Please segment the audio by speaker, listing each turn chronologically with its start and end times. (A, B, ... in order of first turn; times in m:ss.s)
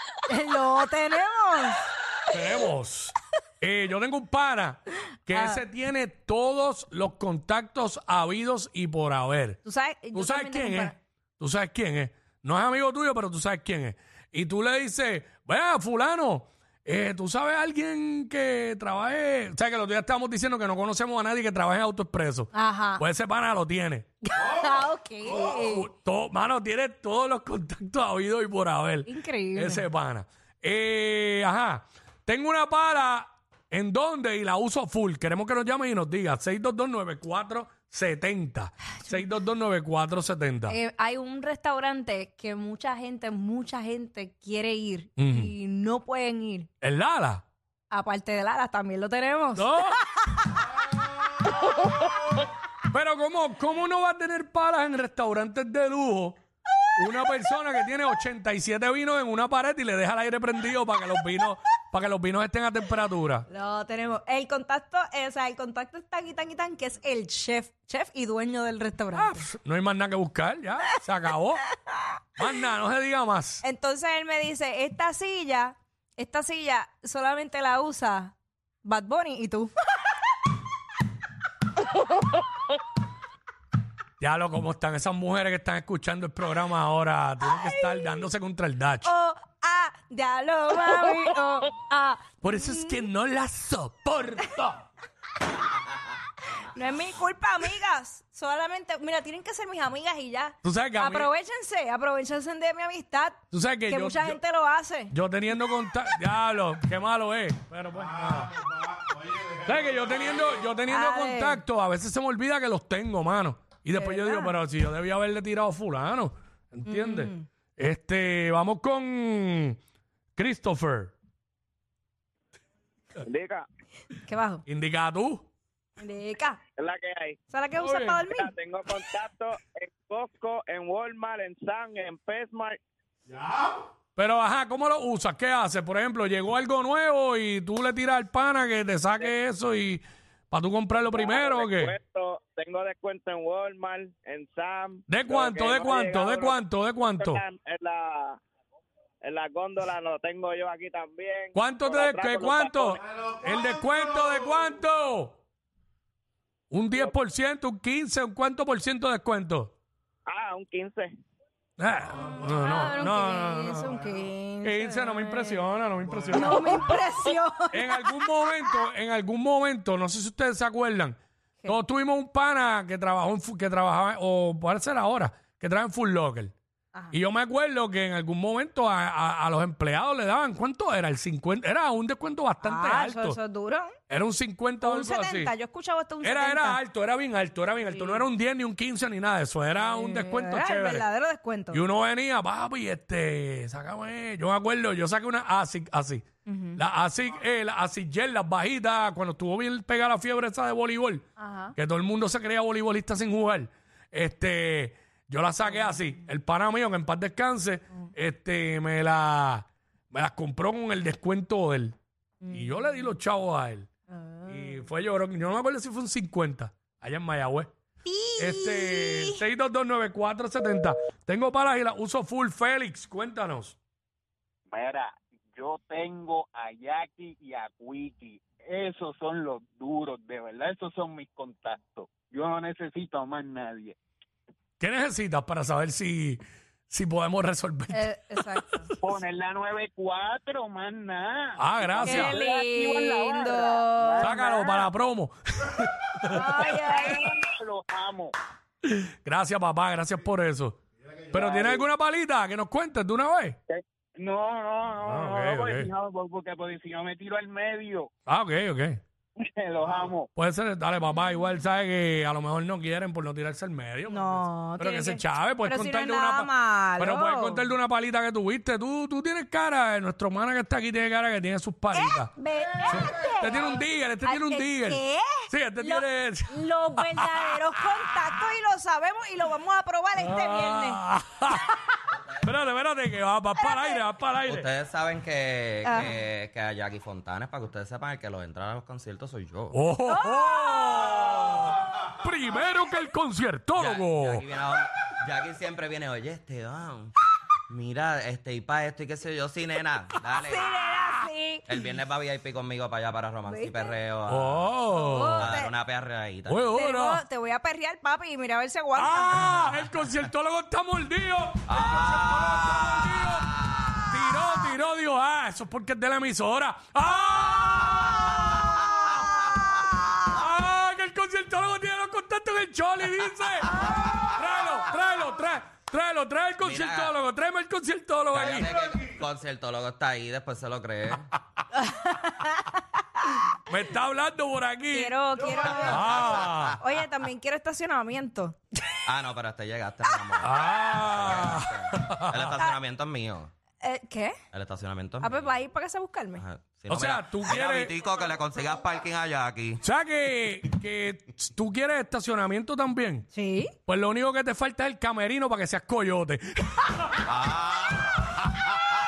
0:00.2-0:01.8 A
0:02.3-0:09.6 B
0:05.3-0:05.6 A
0:09.6-0:10.9 A
0:10.1-0:24.0 B
0:22.5-0:23.0 A
0:24.2-0:25.9 A
0:25.3-0:40.8 B
0:29.1-0:29.8 A
0:40.7-0:46.7 A
0:45.2-0:45.5 B
0:46.8-0:47.4 B
0:47.9-0:49.7 A
0:49.6-0:50.0 B
0:52.9-0:56.4 B
0:57.0-1:03.4 B
1:03.5-1:09.5 A
1:09.1-1:11.6 B
1:12.4-1:13.6 B
1:13.6-1:19.7 A
1:24.2-1:29.1 B
1:27.4-1:28.2 A
1:29.0-1:33.0 A
1:32.4-1:34.8 B
1:36.6-1:45.1 A
1:40.6-1:41.3 B
1:43.5-1:44.4 B
1:45.1-1:48.6 B
1:49.6-1:59.8 B
1:50.9-1:51.6 A
1:53.9-1:54.6 A
1:56.9-1:57.5 A
2:00.4-2:01.1 B
2:03.2-2:03.6 C
2:04.1-2:04.6 A
2:04.6-2:05.5 B
2:06.0-2:06.6 A
2:06.8-2:07.4 C
2:07.5-2:08.5 A
2:07.8-2:08.2 B
2:08.2-2:12.8 C
2:14.2-2:21.9 B
2:20.9-2:26.6 C
2:25.1-2:27.4 B
2:27.1-2:28.4 C
2:29.2-2:33.0 C
2:31.5-2:35.4 B
2:36.7-2:39.7 B
2:40.3-2:41.1 C
2:41.8-2:44.1 B
2:42.5-2:45.6 A
2:44.6-2:46.9 B
2:46.3-2:48.7 A
2:47.7-2:56.5 B
2:57.1-3:03.4 B
3:02.6-3:03.9 A
3:04.1-3:05.5 B
3:04.8-3:06.8 A
3:06.2-3:11.0 B
3:07.9-3:08.2 A
3:09.8-3:11.8 A
3:11.7-3:16.2 B
3:16.4-3:16.8 A
3:16.8-3:31.9 B
3:21.4-3:21.7 A
3:32.4-3:33.1 A
3:32.5-3:33.9 B
3:34.1-3:34.8 A
3:34.5-3:37.7 B
3:38.0-3:39.4 A
3:38.4-3:43.8 B
3:44.7-3:54.0 D
3:54.8-3:59.1 B
3:57.9-3:58.9 A
3:59.0-4:04.8 D
4:01.6-4:02.4 B
4:02.0-4:04.4 A
4:04.2-4:06.7 B
4:06.3-4:07.4 A
4:06.7-4:08.3 D
4:08.8-4:10.8 B
4:11.3-4:13.6 B
4:13.7-4:18.1 D
4:15.0-4:15.9 B
4:18.3-4:19.0 B
4:19.4-4:20.3 D
4:20.3-4:32.3 B
4:24.1-4:27.7 A
4:31.9-4:41.0 A
4:32.8-4:37.8 B
4:40.2-4:41.8 B
4:42.4-4:44.7 B
4:43.6-4:44.0 A
4:44.4-4:49.8 E
4:45.8-4:46.1 A
4:49.7-4:54.4 B
4:50.1-4:51.1 A
4:53.8-4:57.1 E
4:57.7-5:00.6 E
5:00.4-5:01.7 A
5:01.7-5:04.7 E
5:03.5-5:03.9 A
5:04.3-5:05.5 B
5:04.9-5:05.7 A
5:05.4-5:06.6 E
5:06.4-5:07.2 B
5:06.7-5:09.5 A
5:09.0-5:28.9 B
5:11.7-5:14.1 E
5:17.6-5:18.4 E
5:26.6-5:27.1 E
5:28.3-5:31.2 E
5:31.8-5:32.8 A
5:33.5-5:36.8 B
5:34.9-5:38.6 A
5:35.4-5:36.8 E
5:39.0-5:43.5 E
5:40.4-5:42.5 B
5:43.8-5:44.4 A
5:44.5-5:45.5 E
5:45.2-5:46.4 A
5:46.4-5:49.8 E
5:46.9-5:47.9 B
5:49.8-5:53.2 B
5:53.3-5:53.7 A
5:53.9-5:57.0 B
5:57.3-5:58.0 E